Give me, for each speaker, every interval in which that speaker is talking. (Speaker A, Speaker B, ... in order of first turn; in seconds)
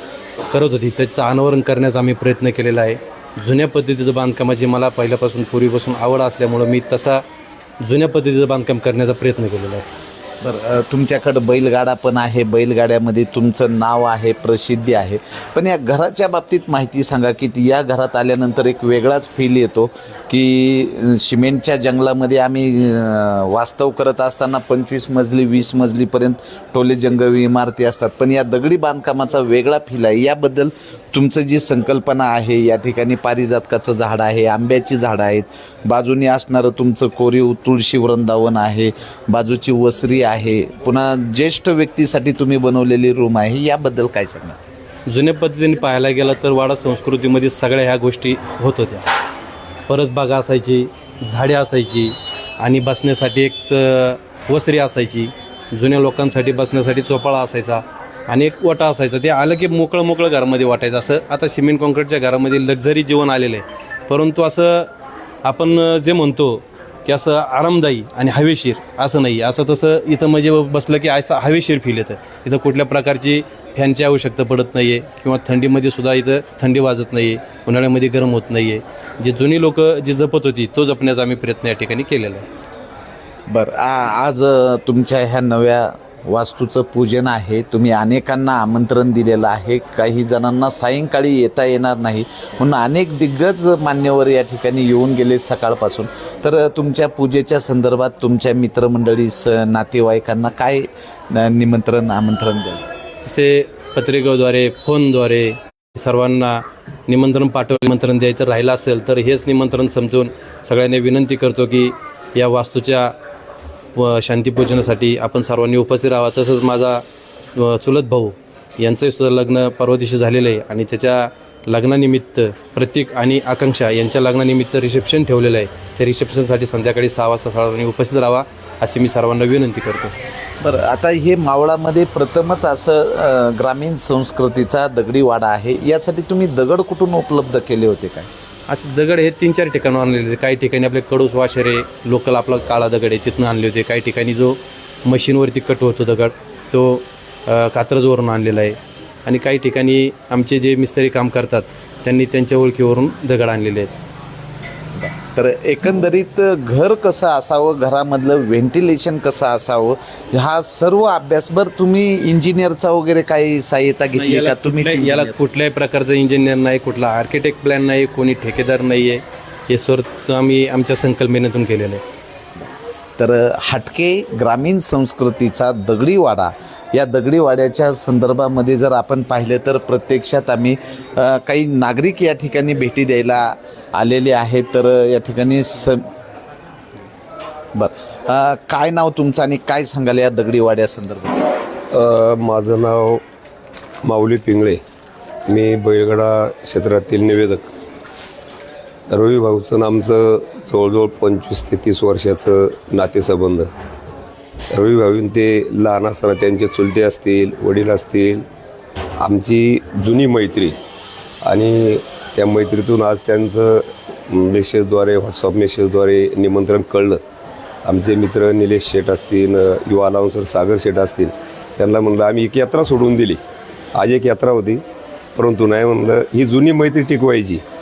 Speaker A: 0.5-7.2, 7.8-9.9, 45.1-49.0, 49.9-64.9, 65.4-82.5, 103.2-113.1, 114.0-117.0, 117.5-130.1, 138.7-153.9, 164.1-172.0
Speaker B: 10.4-44.6, 83.5-102.8, 130.6-138.3, 154.9-165.3, 173.2-186.0, 187.8-191.4
Speaker C: 191.9-193.2, 194.0-194.8, 195.5-197.7, 199.1-203.7, 204.7-208.4, 209.2-210.8, 211.4-217.2, 217.8-223.4, 223.9-224.8, 225.3-227.6